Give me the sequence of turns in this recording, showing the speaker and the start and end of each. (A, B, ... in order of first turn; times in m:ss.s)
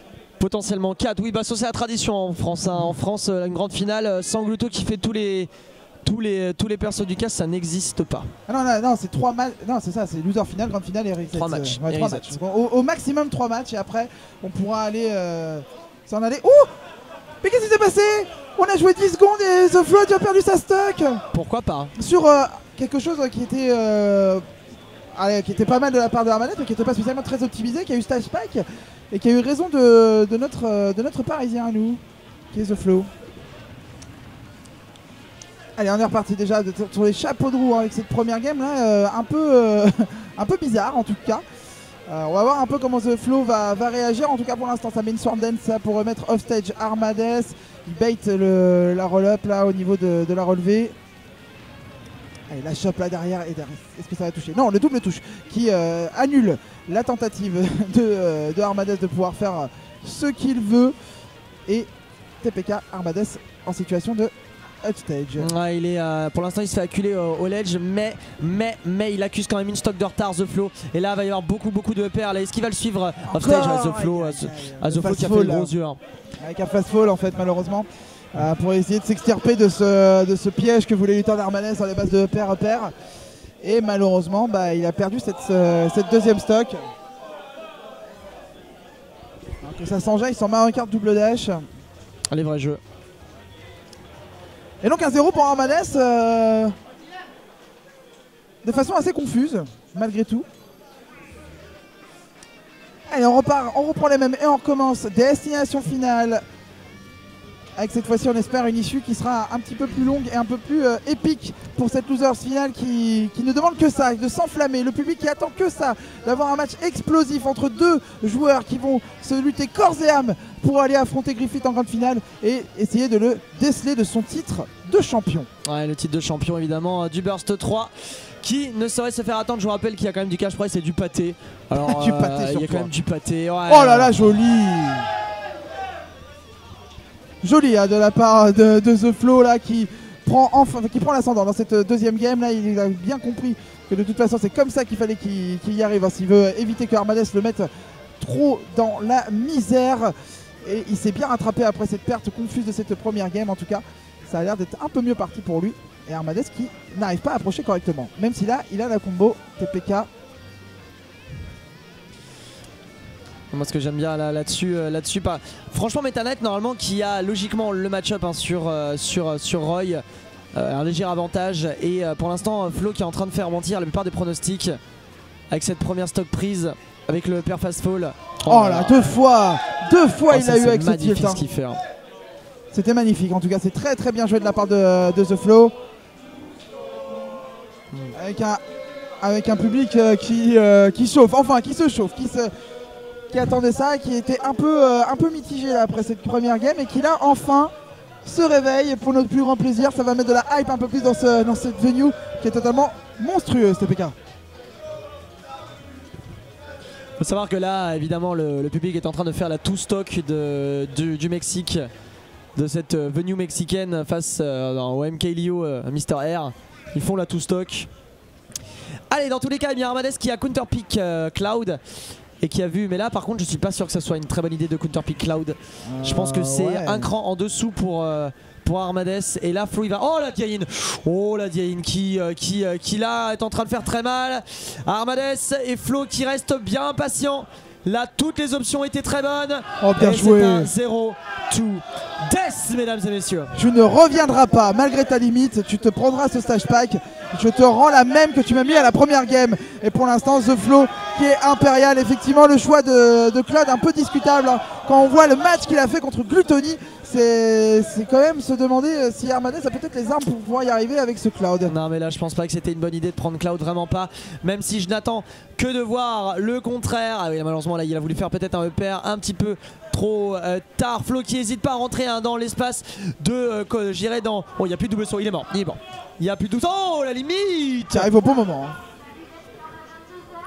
0:00.4-0:05.5 A
0:06.0-0:08.3 A
0:08.5-0:16.7 B
0:11.3-0:12.4 A
0:17.4-0:21.2 B
0:21.3-0:21.9 A
0:22.0-0:24.4 B
0:25.1-0:32.0 B
0:32.5-0:33.1 B
0:35.8-0:41.4 B
0:42.1-0:50.9 B
0:52.5-1:00.9 B
1:02.4-1:05.5 B
1:05.4-1:16.0 A
1:13.3-1:15.7 B
1:16.4-1:22.9 B
1:23.6-1:26.8 B
1:29.6-1:31.6 B
1:32.3-1:32.8 A
1:34.8-1:36.7 B
1:38.6-1:40.4 B
1:43.1-1:46.4 B
1:47.8-2:05.5 B
2:05.6-2:14.2 A
2:11.7-2:12.9 B
2:13.7-2:15.1 B
2:17.4-2:27.7 B
2:28.2-2:40.1 B
2:43.5-2:50.0 A
2:50.5-2:54.7 A
2:55.5-2:59.1 A
2:58.5-3:01.4 B
3:00.3-3:01.8 A
3:02.7-3:05.7 B
3:08.1-3:08.6 B
3:09.2-3:12.5 B
3:13.3-3:17.7 B
3:18.2-3:24.1 B
3:27.2-3:31.8 A
3:32.6-3:37.9 A
3:39.1-3:41.8 A
3:42.4-4:03.5 A
3:45.8-3:47.1 B
3:59.8-4:00.7 B
4:03.5-4:21.7 B
4:21.6-4:38.1 A
4:37.9-4:38.8 B